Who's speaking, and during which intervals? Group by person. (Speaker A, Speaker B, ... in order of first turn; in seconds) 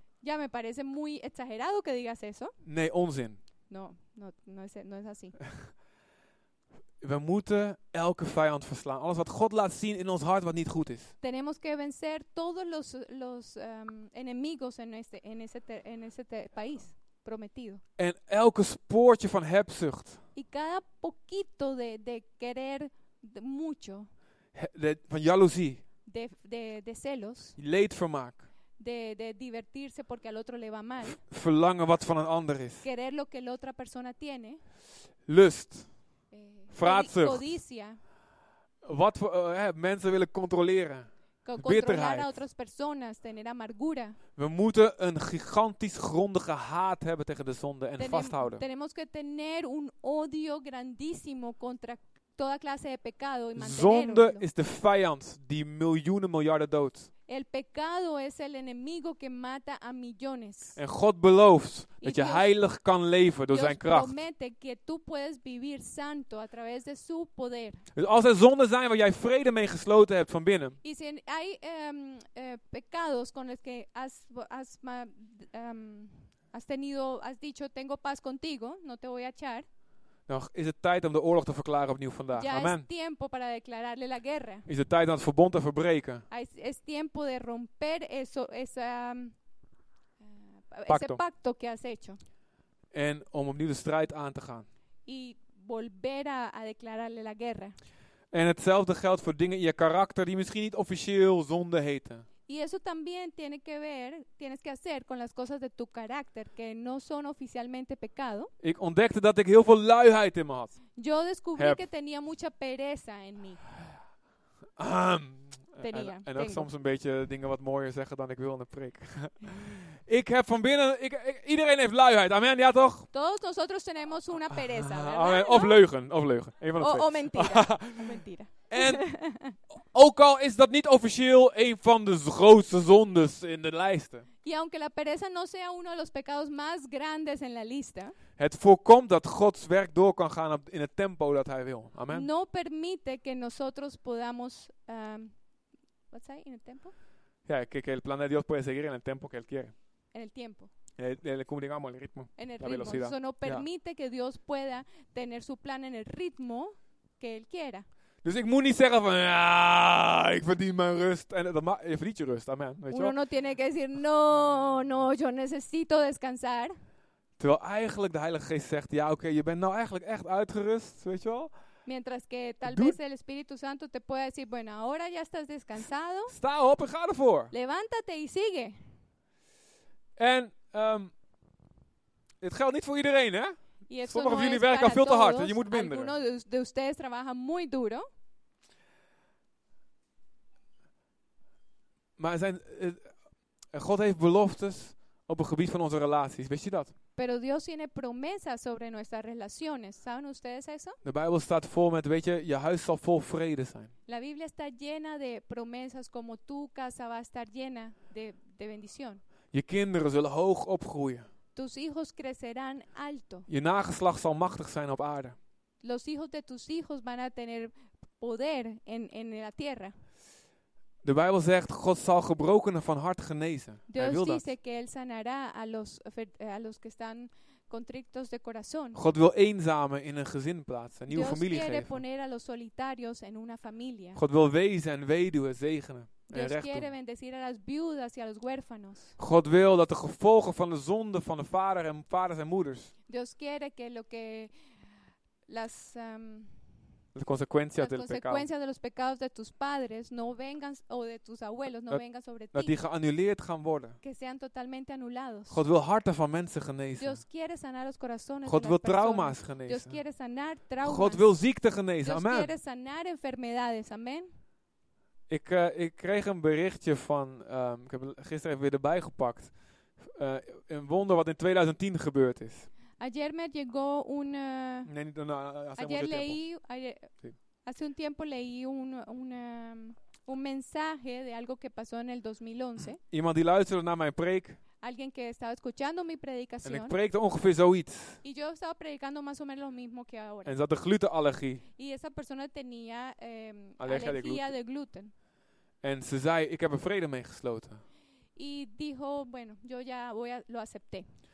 Speaker A: 0.2-2.5, 3.7-5.4, 11.2-17.8, 20.3-24.1, 26.1-27.6, 28.8-31.2, 32.8-34.6, 36.3-38.0, 41.4-44.2, 48.0-54.4, 57.3-60.8, 62.0-62.5, 63.5-67.8, 70.8-79.7, 82.3-84.7, 86.3-89.3, 90.7-92.2, 95.1-97.7, 102.5-108.5, 111.0-113.6, 115.8-116.7, 123.1-125.8, 126.8-129.6, 134.4-138.1, 142.1-145.3, 146.1-146.9, 150.1-150.7, 152.4-157.8, 162.9-166.7, 171.8-176.3, 177.5-178.8, 183.9-188.1, 197.2-201.0, 204.1-209.2, 211.5-213.5, 215.8-219.9, 223.9-229.0, 231.1-234.2, 236.3-239.2, 243.1-244.5, 245.5-246.5, 247.8-252.8, 254.0-255.6, 257.0-261.3, 262.0-264.3, 273.0-274.9, 275.8-283.0, 284.8-286.9, 288.2-290.5, 291.8-295.1, 298.4-301.1
Speaker B: 2.6-3.4, 7.0-11.1, 18.0-20.2, 24.5-25.8, 27.6-28.4, 31.0-32.8, 35.3-35.9, 36.7-37.5, 38.8-41.1, 41.6-42.4, 44.4-48.6, 53.5-57.1, 60.8-64.1, 67.9-70.8, 80.3-82.8, 84.7-86.2, 90.9-91.2, 92.9-94.7, 98.3-102.2, 108.6-110.8, 114.8-123.1, 124.5-129.1, 129.7-134.2, 138.4-142.3, 147.5-149.7, 151.0-153.7, 158.2-163.1, 167.4-171.5, 172.6-173.0, 176.3-177.5, 180.2-181.1, 182.4-183.5, 184.1-186.2, 192.2-193.1, 193.7-196.9, 201.0-203.9, 209.5-211.2, 213.5-215.4, 221.0-224.4, 228.9-232.0, 234.2-236.9, 239.2-242.9, 247.1-248.4, 252.5-254.0, 255.5-257.2, 258.4-260.0, 260.8-262.5, 265.3-272.7, 274.9-276.4, 283.0-284.6, 286.6-288.2, 290.4-291.6, 293.8-294.5, 295.8-297.8